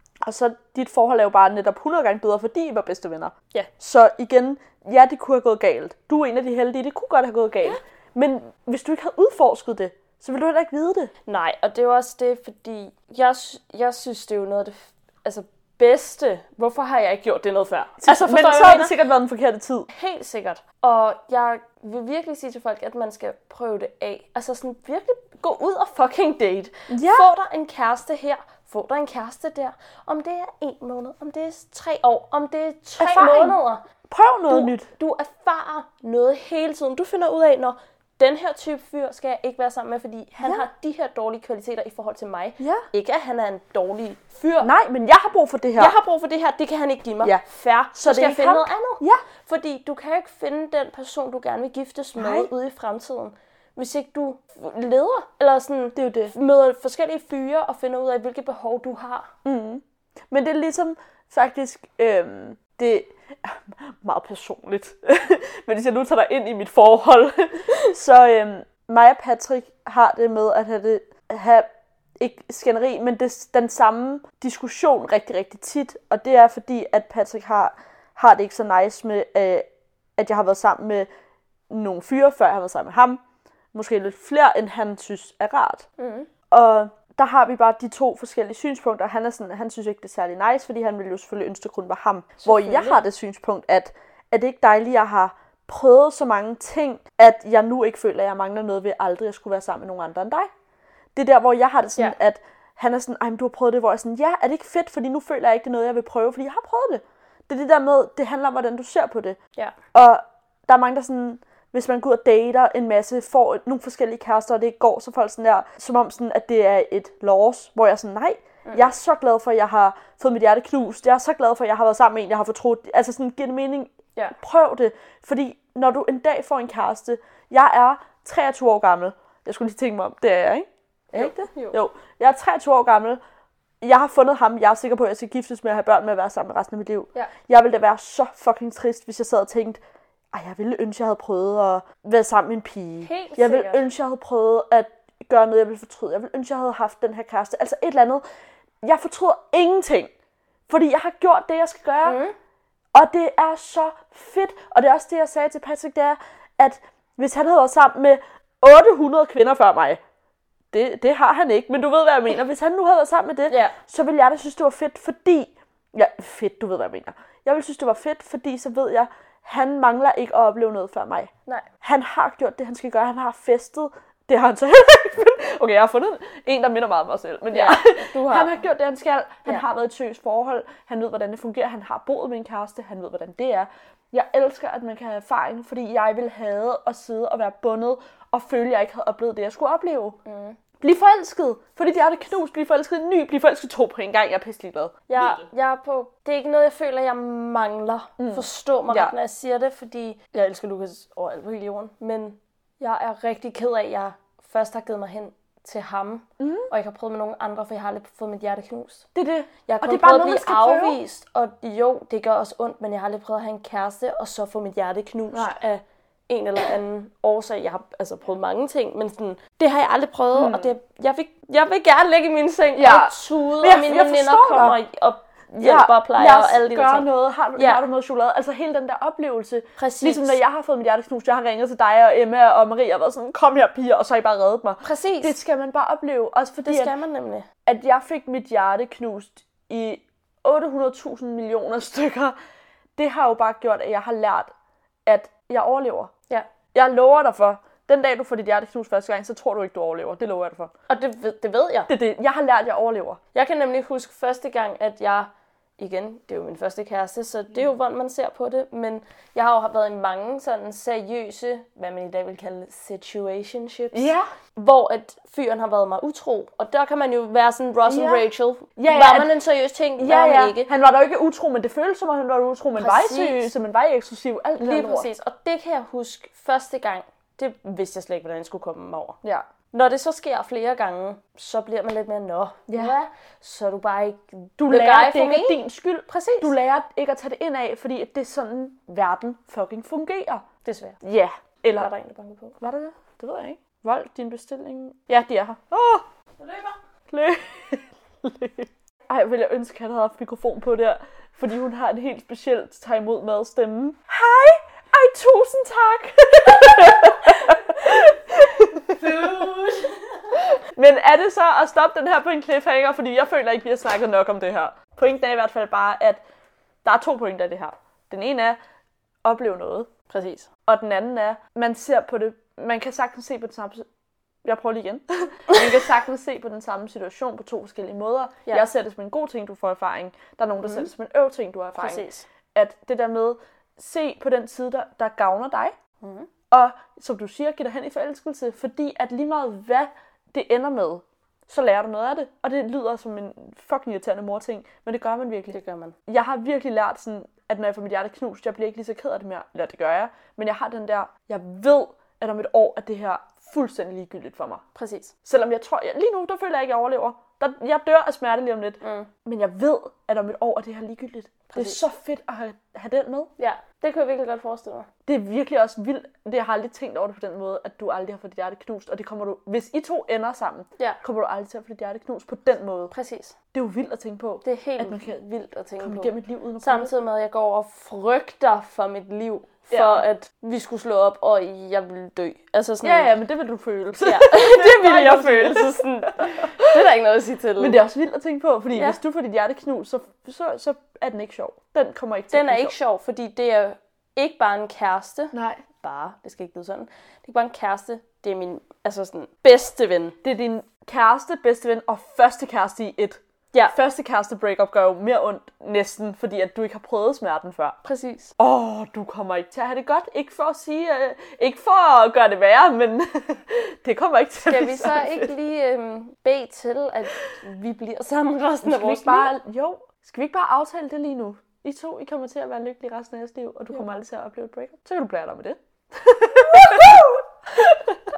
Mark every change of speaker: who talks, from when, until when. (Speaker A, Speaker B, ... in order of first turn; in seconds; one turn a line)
Speaker A: 0.2-11.1
Speaker B: 11.3-18.9
Speaker A: 18.0-19.9
Speaker B: 19.9-33.9
Speaker A: 26.9-27.3
Speaker A: 33.0-34.9
Speaker B: 34.5-44.7
Speaker A: 42.6-42.9
Speaker A: 44.6-46.0
Speaker B: 45.8-59.3
Speaker A: 47.9-49.2
Speaker A: 52.2-52.5
Speaker A: 56.0-56.3
Speaker A: 59.5-71.7
Speaker A: 72.2-81.1
Speaker A: 81.7-83.2
Speaker A: 83.7-85.9
Speaker B: 86.0-86.3
Speaker A: 86.5-100.5
Speaker B: 92.4-93.0
Speaker A: 101.2-109.4
Speaker A: 109.9-133.2
Speaker B: 118.7-118.9
Speaker B: 131.1-131.8
Speaker A: 133.8-139.8
Speaker A: 140.3-148.2
Speaker B: 143.0-143.9
Speaker A: 148.8-150.1
Speaker A: 150.7-152.2
Speaker B: 152.0-152.4
Speaker A: 152.9-160.0
Speaker A: 160.7-171.3
Speaker B: 163.5-163.8
Speaker A: 171.8-190.2
Speaker B: 177.5-178.6
Speaker B: 190.3-190.6
Speaker A: 190.8-195.4
Speaker B: 195.1-209.1
Speaker A: 198.2-199.1
Speaker A: 206.4-206.7
Speaker A: 209.2-211.0
Speaker B: 209.7-227.9
Speaker A: 215.3-215.6
Speaker A: 220.3-220.7
Speaker A: 222.8-224.8
Speaker A: 225.6-236.9
Speaker B: 229.8-230.4
Speaker B: 234.8-235.4
Speaker B: 236.7-237.5
Speaker A: 237.7-242.3
Speaker A: 243.0-244.5
Speaker A: 245.1-246.1
Speaker A: 246.7-250.7
Speaker B: 250.9-251.9
Speaker A: 251.9-253.2
Speaker B: 253.3-270.7
Speaker A: 263.9-264.3
Speaker A: 267.9-268.2
Speaker A: 268.8-269.3
Speaker A: 270.0-275.1
Speaker B: 272.8-273.5
Speaker B: 274.6-279.2
Speaker B: 279.7-286.5
Speaker A: 282.7-282.9
Speaker A: 284.6-290.4
Speaker B: 290.6-291.0
Speaker A: 291.0-291.9
Speaker B: 291.8-292.6
Speaker A: 292.6-296.1
Speaker B: 296.4-296.8
Speaker A: 297.1-309.5
Speaker B: 307.0-307.6
Speaker B: 308.9-310.5
Speaker A: 310.5-316.2
Speaker A: 316.8-318.6
Speaker A: 319.2-319.9
Speaker B: 320.1-320.5
Speaker A: 320.7-323.9
Speaker A: 324.4-335.8
Speaker B: 330.6-330.9
Speaker B: 331.8-332.2
Speaker B: 336.0-336.3
Speaker A: 336.5-354.6
Speaker B: 345.5-346.0
Speaker B: 354.8-355.1
Speaker A: 355.2-363.3
Speaker B: 358.8-359.1
Speaker B: 361.5-361.8
Speaker B: 363.4-364.9
Speaker A: 365.1-372.9
Speaker B: 372.9-373.4
Speaker A: 373.5-375.2
Speaker B: 374.4-383.1
Speaker A: 375.8-376.9
Speaker A: 379.7-380.1
Speaker A: 382.8-386.8
Speaker B: 384.0-387.8
Speaker A: 387.6-392.8
Speaker B: 388.7-389.0
Speaker B: 392.3-400.2
Speaker A: 395.3-395.6
Speaker A: 400.2-407.8
Speaker B: 407.8-408.3
Speaker A: 408.4-415.3
Speaker B: 414.5-419.3
Speaker A: 418.6-427.7
Speaker B: 426.5-427.1